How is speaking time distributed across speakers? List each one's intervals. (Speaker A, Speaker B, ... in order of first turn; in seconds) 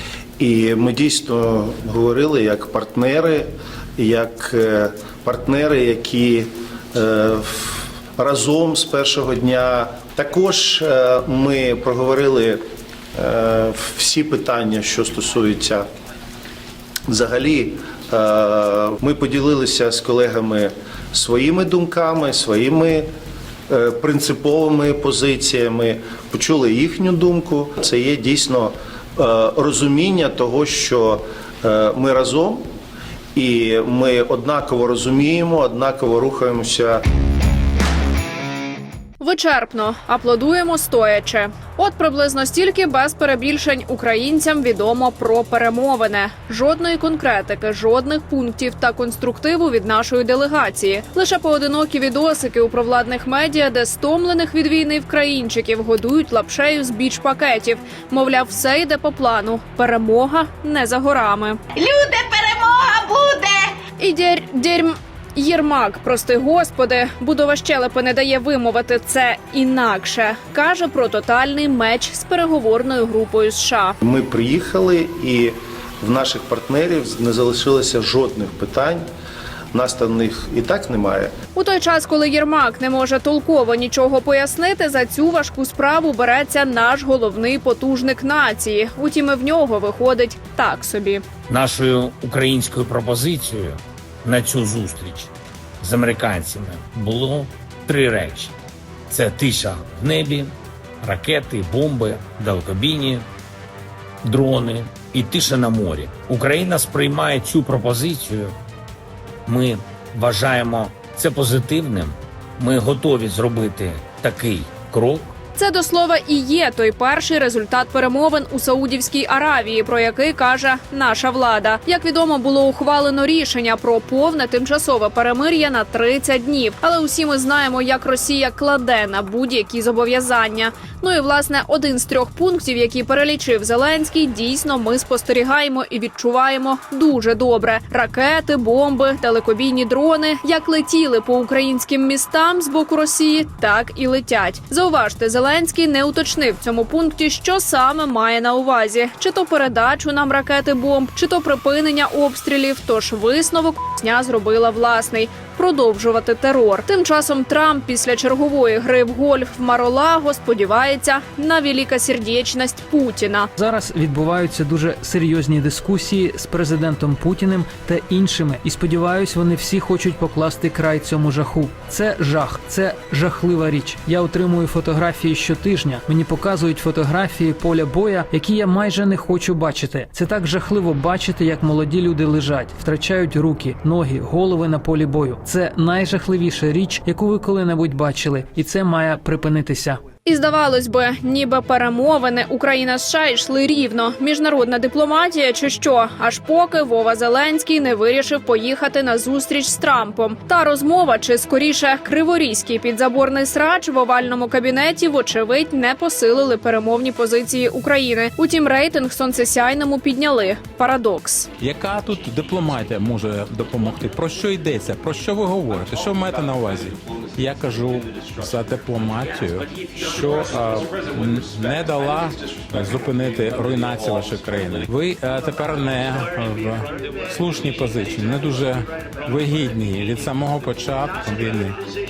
Speaker A: 0.4-12.6, 13.2-15.9, 17.1-23.1, 23.7-32.7, 33.4-37.0, 74.0-79.0, 79.7-81.3
Speaker B: 39.2-61.6, 64.0-74.0, 81.5-91.2, 115.6-163.5, 190.2-211.5
Speaker C: 61.8-63.7
Speaker D: 91.5-95.3, 95.8-98.5, 99.1-103.2, 104.2-108.5, 109.5-115.3
Speaker E: 163.6-190.0
Speaker F: 211.6-231.8